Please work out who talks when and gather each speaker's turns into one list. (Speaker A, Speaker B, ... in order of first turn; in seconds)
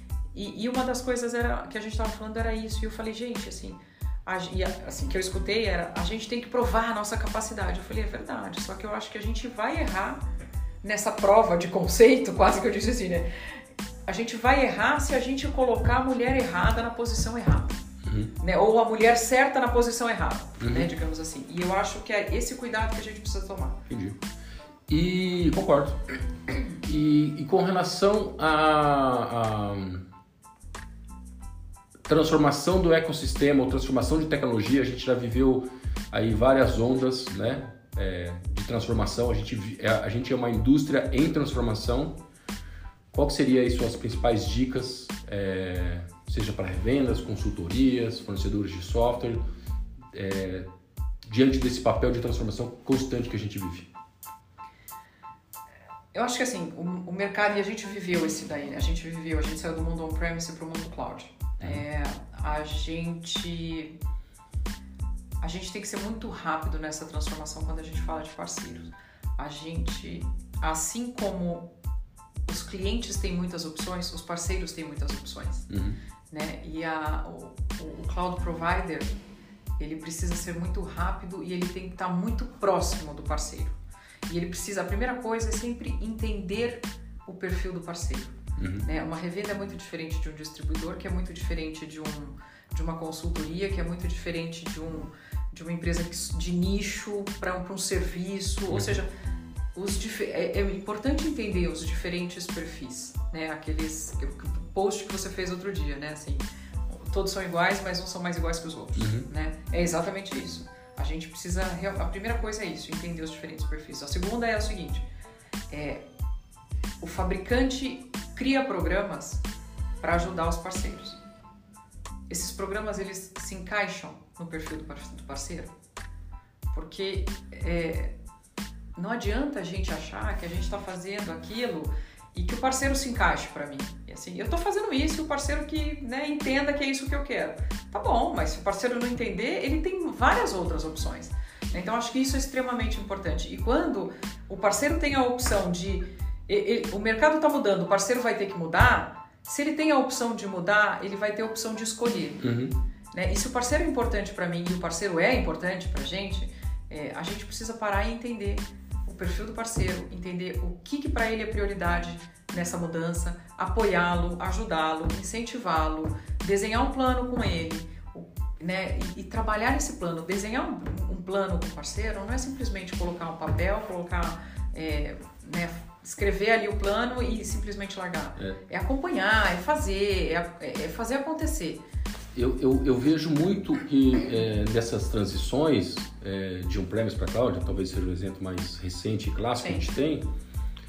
Speaker A: 0.3-10.2, 10.8-13.3, 14.1-17.8, 18.4-23.8, 56.1-64.0, 65.4-71.7, 72.5-75.7, 76.3-79.1, 79.8-83.8, 84.3-99.1, 99.8-115.0, 115.7-116.0, 117.0-119.4, 120.0-121.2, 122.3-125.7, 126.7-128.1, 129.0-152.4, 153.1-181.8, 189.6-189.9
Speaker B: 18.1-18.3, 20.6-20.9, 23.9-24.2, 24.9-26.0, 26.8-30.0, 32.1-42.2, 43.1-49.4, 50.1-50.7, 51.3-53.9, 75.7-76.0, 88.6-88.9, 109.0-109.3, 152.4-152.7, 182.3-190.2